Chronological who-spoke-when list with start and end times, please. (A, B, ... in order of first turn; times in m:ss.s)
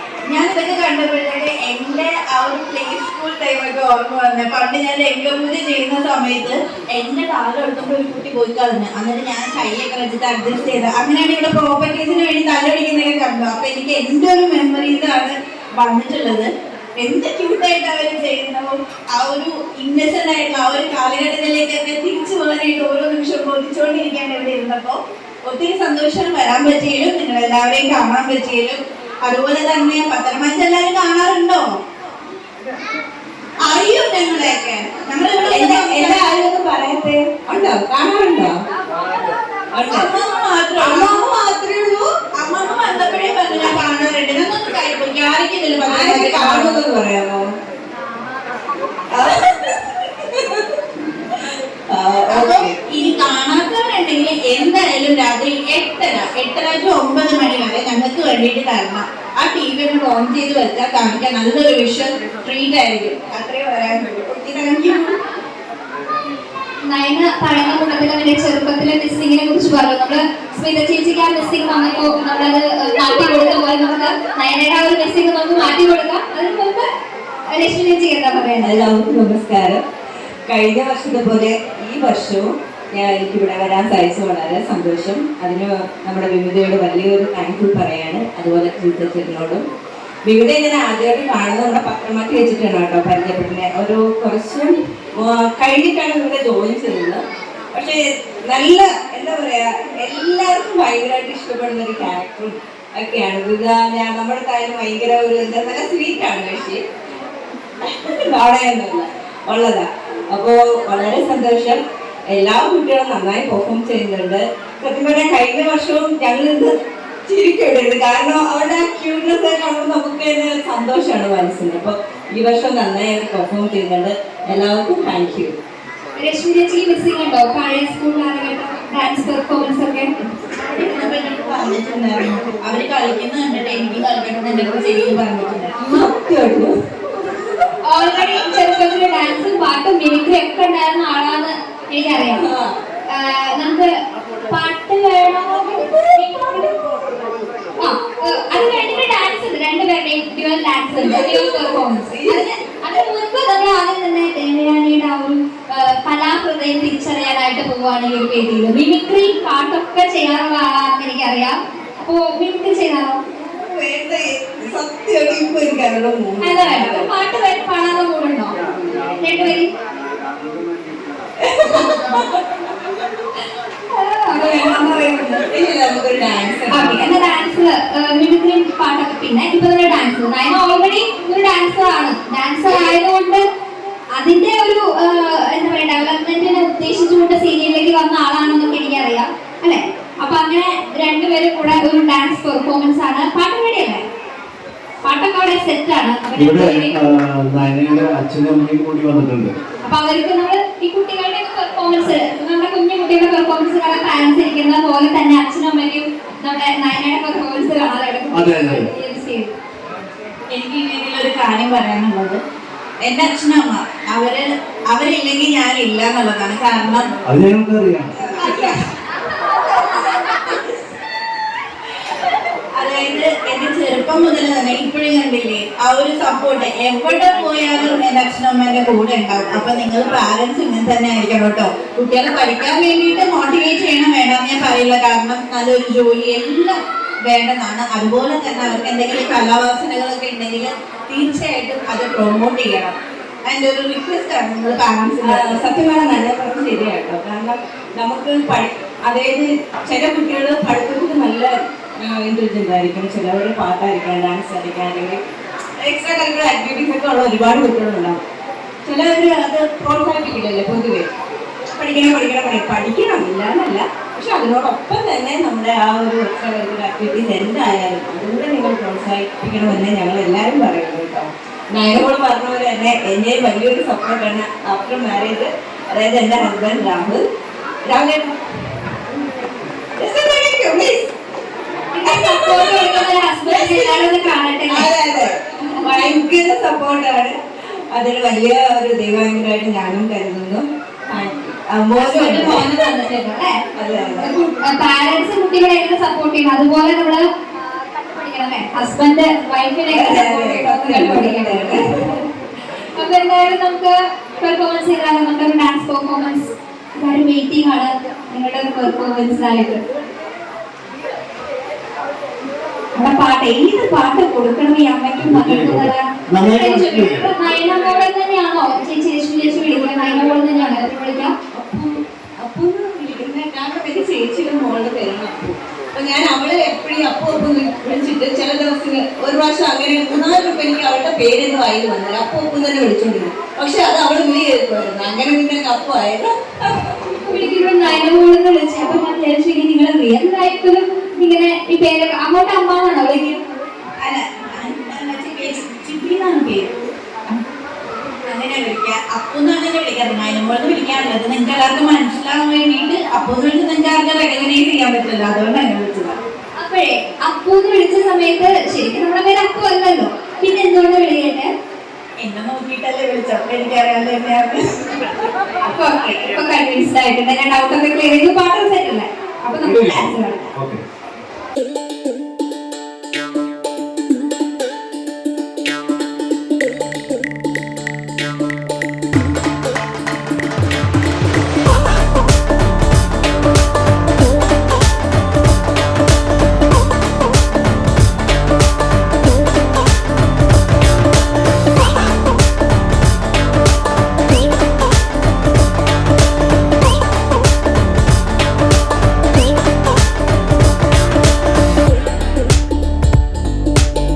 0:00.3-0:31.8 A
0:33.6-0:36.4 A
0:35.5-0:38.6 B
0:39.7-0:40.1 B
0:39.9-0:41.4 A
0:40.8-0:42.1 B
0:42.4-0:46.8 A
0:45.9-0:47.5 B
0:49.1-0:52.8 B
0:52.3-1:05.2 A
1:06.9-1:16.8 C
1:17.5-1:18.8 C
1:18.6-1:19.8 B
1:20.5-1:29.6 B
1:30.3-1:37.2 B
1:37.7-1:46.8 B
1:47.8-1:56.8 B
1:57.3-2:05.6 B
2:06.2-2:10.1 C
2:10.7-2:15.7 A
2:15.8-2:16.8 B
2:17.8-2:22.4 C
2:22.2-2:22.7 B
2:23.1-2:23.9 C
2:24.5-2:27.0 C
2:27.8-2:43.2 C
2:31.0-2:32.5 B
2:43.5-2:47.1 B
2:46.4-2:48.5 C
2:49.2-2:49.7 C
2:51.4-2:52.4 B
2:53.9-2:55.4 C
2:54.3-2:57.1 B
2:56.7-3:03.4 C
3:04.2-3:14.0 C
3:15.0-3:17.0 C
3:16.4-3:19.6 D
3:19.9-3:29.5 C
3:28.3-3:28.9 D
3:30.5-3:32.4 A
3:33.0-3:37.1 A
3:37.3-3:38.1 D
3:38.2-3:38.8 B
3:40.3-3:40.6 B
3:42.8-3:56.8 A
3:57.3-4:02.9 A
4:03.5-4:05.6 A
4:05.2-4:15.2 B
4:15.8-4:18.2 B
4:18.8-4:21.1 B
4:21.8-4:37.2 B
4:37.8-4:38.3 B
4:40.0-4:41.1 B
4:41.9-4:44.9 C
4:42.1-4:44.0 B
4:44.7-4:47.4 B
4:45.7-4:46.1 C
4:47.9-4:52.7 B
4:52.0-4:57.2 C
4:53.8-4:54.4 B
4:57.9-5:02.3 C
4:59.9-5:02.0 B
5:03.0-5:09.8 C
5:13.0-5:21.3 C
5:15.2-5:17.3 D
5:21.5-5:37.2 B
5:37.3-5:43.4 C
5:44.0-5:47.4 A
5:48.3-5:56.2 A
5:56.6-6:01.5 C
6:02.2-6:04.7 A
6:05.7-6:10.5 C
6:09.6-6:10.8 D